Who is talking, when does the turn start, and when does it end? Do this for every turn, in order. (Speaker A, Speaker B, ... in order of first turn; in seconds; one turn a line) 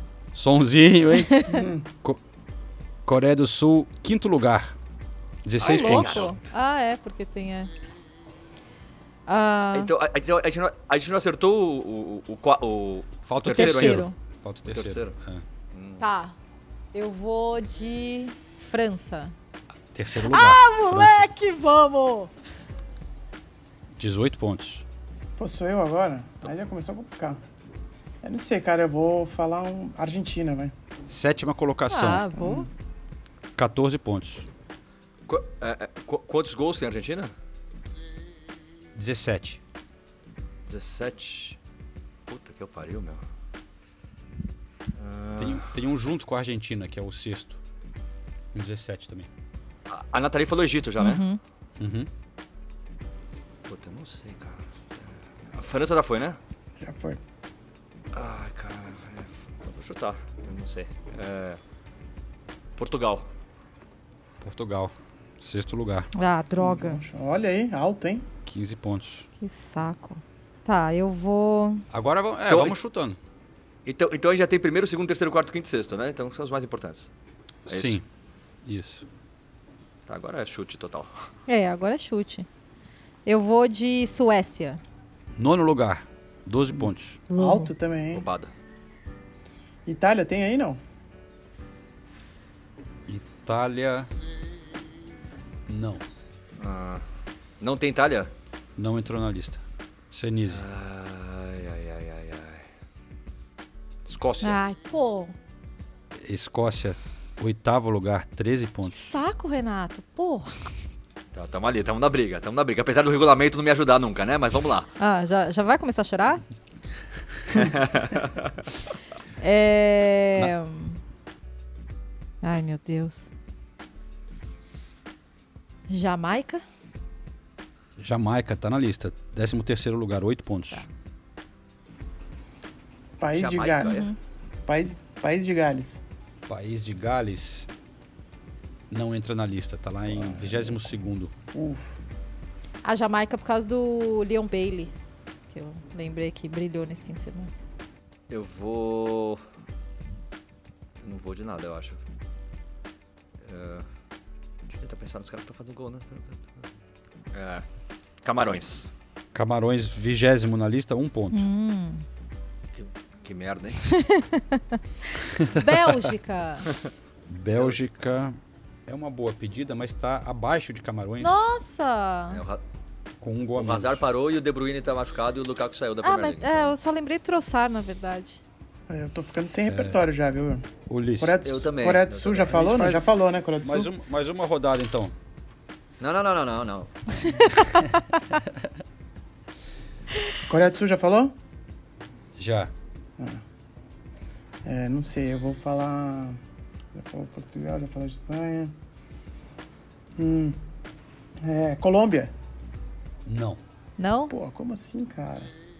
Speaker A: 0.3-1.4
Speaker B: 1.5-1.9
Speaker A: 3.1-4.8
Speaker A: 5.5-6.4
Speaker C: 5.6-7.7
Speaker D: 5.6-6.3
Speaker C: 9.3-9.9
Speaker D: 9.7-14.1
Speaker A: 13.3-15.4
Speaker C: 13.5-14.1
Speaker D: 14.7-15.2
Speaker D: 15.7-16.0
Speaker C: 16.0-16.3
Speaker C: 16.9-19.4
Speaker A: 19.9-21.3
Speaker C: 20.3-22.3
Speaker A: 24.0-24.8
Speaker B: 25.4-27.4
Speaker B: 28.2-30.7
Speaker A: 31.1-32.3
Speaker C: 31.9-32.7
Speaker A: 33.6-34.5
Speaker D: 35.3-37.3
Speaker A: 39.0-39.6
Speaker D: 40.7-41.6
Speaker D: 42.3-43.2
Speaker D: 45.0-45.6
Speaker A: 45.4-47.6
Speaker A: 48.5-49.3
Speaker D: 49.9-51.2
Speaker C: 51.0-51.4
Speaker A: 51.8-52.1
Speaker D: 53.7-56.4
Speaker B: 56.8-57.2
Speaker D: 58.1-61.6
Speaker D: 62.8-63.3
Speaker A: 64.4-66.1
Speaker C: 66.1-67.0
Speaker B: 66.6-68.3
Speaker A: 68.5-69.2
Speaker C: 69.4-71.8
Speaker A: 71.9-73.2
Speaker D: 72.5-72.8
Speaker D: 73.8-77.1
Speaker A: 77.7-78.0
Speaker D: 77.7-77.9
Speaker A: 78.7-79.0
Speaker D: 80.1-81.2
Speaker C: 81.5-82.5
Speaker C: 83.3-84.8
Speaker A: 85.3-87.3
Speaker B: 86.7-88.2
Speaker C: 87.3-87.7
Speaker D: 88.1-88.5
Speaker B: 89.9-90.8
Speaker A: 93.1-94.1
Speaker A: 95.7-96.0
Speaker D: 96.6-97.0
Speaker D: 97.6-98.3
Speaker A: 98.8-99.6
Speaker A: 100.1-100.6
Speaker D: 100.5-102.7
Speaker D: 104.1-104.6
Speaker C: 104.4-105.3
Speaker A: 106.2-109.0
Speaker C: 108.9-110.7
Speaker D: 111.3-114.9
Speaker C: 115.0-116.4
Speaker D: 117.5-118.1
Speaker C: 119.4-121.0
Speaker C: 122.4-123.3
Speaker C: 125.9-126.6
Speaker A: 128.0-130.8
Speaker B: 133.2-134.0
Speaker D: 133.3-134.1
Speaker C: 133.8-134.2
Speaker B: 134.7-136.0
Speaker A: 136.5-137.7
Speaker A: 138.9-141.3
Speaker B: 140.2-140.8
Speaker B: 141.5-142.0
Speaker C: 142.8-144.9
Speaker C: 145.5-147.5
Speaker D: 148.3-149.4
Speaker D: 151.0-152.0
Speaker D: 153.4-153.9
Speaker D: 154.7-156.7
Speaker D: 157.3-157.7
Speaker D: 158.2-158.9
Speaker A: 159.3-161.5
Speaker C: 161.3-162.0
Speaker D: 162.7-163.8
Speaker C: 163.9-164.8
Speaker A: 165.4-165.7
Speaker C: 165.5-166.7
Speaker A: 167.3-171.4
Speaker C: 171.2-172.4
Speaker D: 172.3-172.6
Speaker A: 173.2-174.0
Speaker D: 173.6-176.7
Speaker C: 176.0-178.4
Speaker B: 178.9-183.9
Speaker A: 179.7-180.1
Speaker A: 180.9-181.4
Speaker D: 181.4-182.8
Speaker A: 182.5-183.0
Speaker A: 183.6-185.1
Speaker D: 186.0-186.9
Speaker B: 190.5-191.3
Speaker A: 192.4-192.7
Speaker B: 194.7-196.4
Speaker B: 196.9-198.7
Speaker B: 200.2-200.6
Speaker B: 201.4-202.3
Speaker A: 203.3-203.6
Speaker C: 204.0-204.3
Speaker B: 204.3-205.5